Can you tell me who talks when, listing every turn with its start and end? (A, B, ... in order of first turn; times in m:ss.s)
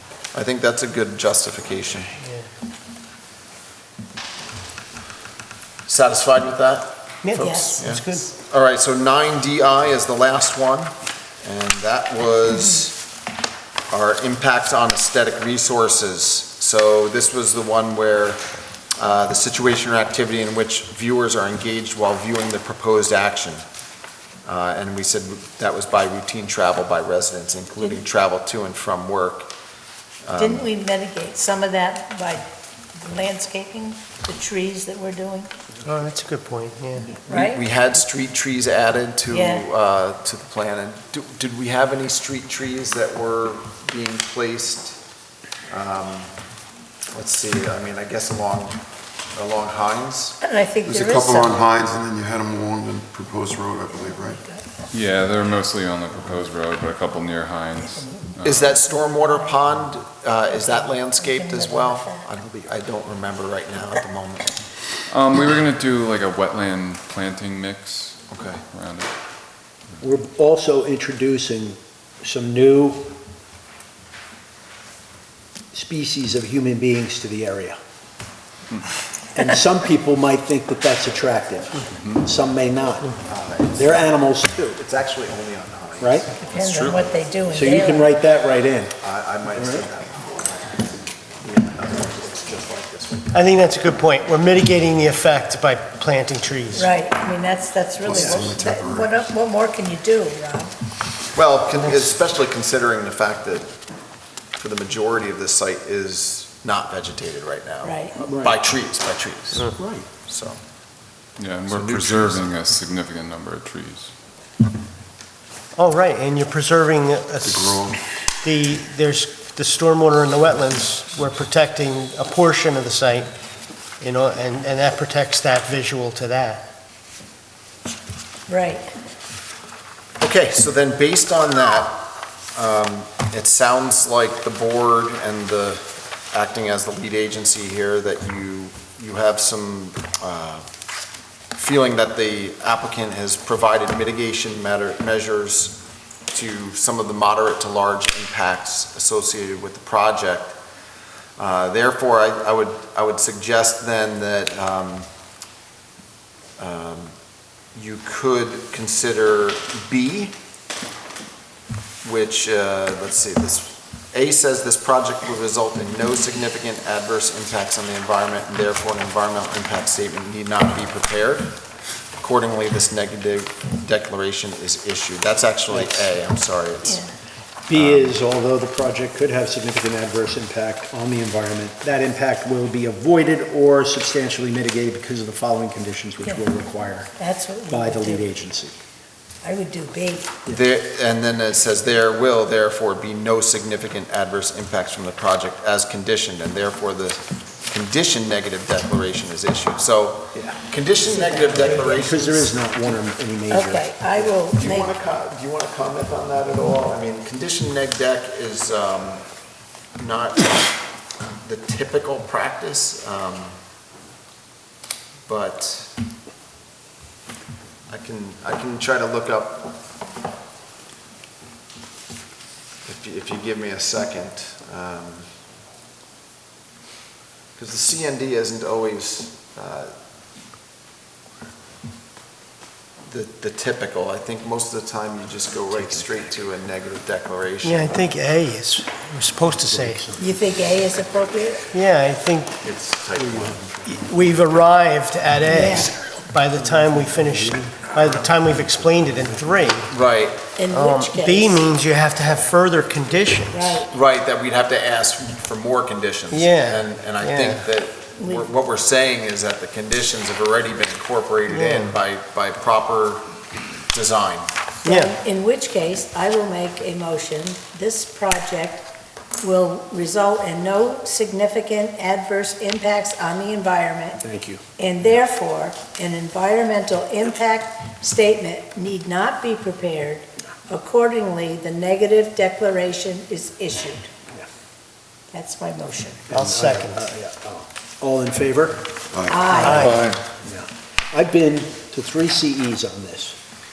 0:00.3-0:02.1 A
0:02.2-0:02.4 B
0:05.9-0:10.9 A
0:07.2-0:08.3 B
0:07.4-0:07.8 C
0:11.4-0:13.0 A
0:13.9-0:18.4 A
0:19.0-0:23.6 A
0:24.4-0:29.5 A
0:30.2-0:30.7 A
0:30.4-0:35.5 C
0:35.8-0:37.1 B
0:37.3-0:37.6 C
0:37.3-0:45.0 A
0:39.3-0:39.6 C
0:45.7-0:46.3 A
0:47.1-0:48.8 A
0:49.4-0:50.4 A
0:50.4-0:51.6 C
0:50.8-0:54.4 D
0:53.9-0:54.6 C
0:54.9-0:58.8 E
0:57.8-0:58.3 C
0:58.4-1:04.5 A
0:58.8-0:59.6 C
1:00.5-1:02.3 C
1:05.1-1:09.1 E
1:08.3-1:08.6 A
1:10.0-1:13.1 F
1:15.7-1:17.8 F
1:19.4-1:23.2 F
1:21.9-1:22.2 E
1:23.3-1:26.3 A
1:23.8-1:24.6 F
1:26.0-1:26.3 F
1:26.4-1:28.2 C
1:26.5-1:27.0 E
1:27.5-1:29.0 F
1:29.0-1:33.4 A
1:29.5-1:29.9 F
1:33.3-1:36.9 B
1:36.7-1:40.7 C
1:38.0-1:39.3 D
1:38.1-1:38.5 A
1:41.3-1:43.7 A
1:44.6-1:50.6 A
1:47.8-1:48.2 C
1:48.2-1:48.6 F
1:49.8-1:50.1 F
1:51.4-1:54.1 E
1:51.6-1:52.5 A
1:55.8-2:03.3 B
1:57.5-1:58.0 D
2:04.0-2:06.7 B
2:08.5-2:08.9 C
2:10.2-2:12.0 A
2:12.5-2:20.7 A
2:21.6-2:25.8 A
2:26.3-2:30.6 A
2:31.4-2:35.1 A
2:36.6-2:37.1 A
2:37.7-2:40.3 A
2:42.0-2:51.6 A
2:52.2-2:57.1 A
2:55.7-2:56.1 F
2:56.8-2:57.1 C
2:57.7-3:07.1 F
2:57.7-2:58.2 A
3:06.2-3:06.5 C
3:07.2-3:08.4 C
3:07.7-3:08.8 F
3:09.4-3:10.4 C
3:10.5-3:22.5 A
3:20.4-3:20.6 F
3:21.1-3:22.1 C
3:21.7-3:23.9 F
3:23.5-3:24.9 C
3:24.1-3:29.2 A
3:30.0-3:30.8 A
3:31.4-3:33.6 A
3:35.3-3:35.9 A
3:37.9-3:39.7 A
3:42.8-3:45.3 A
3:47.6-3:49.9 A
3:53.0-3:57.9 A
3:55.7-3:56.2 F
3:57.6-4:00.0 B
3:59.6-4:00.3 F
4:00.2-4:01.7 C
4:01.7-4:02.6 B
4:02.6-4:03.8 A
4:03.2-4:03.6 F
4:03.9-4:09.9 B
4:05.5-4:06.0 C
4:06.6-4:07.7 F
4:08.4-4:09.8 F
4:09.9-4:10.4 A
4:10.6-4:11.7 C
4:10.7-4:13.8 B
4:13.5-4:13.9 C
4:13.8-4:24.5 A
4:16.3-4:17.6 B
4:18.2-4:18.5 C
4:21.5-4:22.0 B
4:24.8-4:28.9 C
4:24.9-4:25.1 B
4:29.4-4:44.1 C
4:34.2-4:34.6 F
4:45.3-4:46.2 C
4:46.3-4:48.9 F
4:46.3-4:47.1 B
4:49.1-4:50.2 D
4:49.3-4:50.1 C
4:49.5-4:53.4 F
4:49.6-4:50.0 B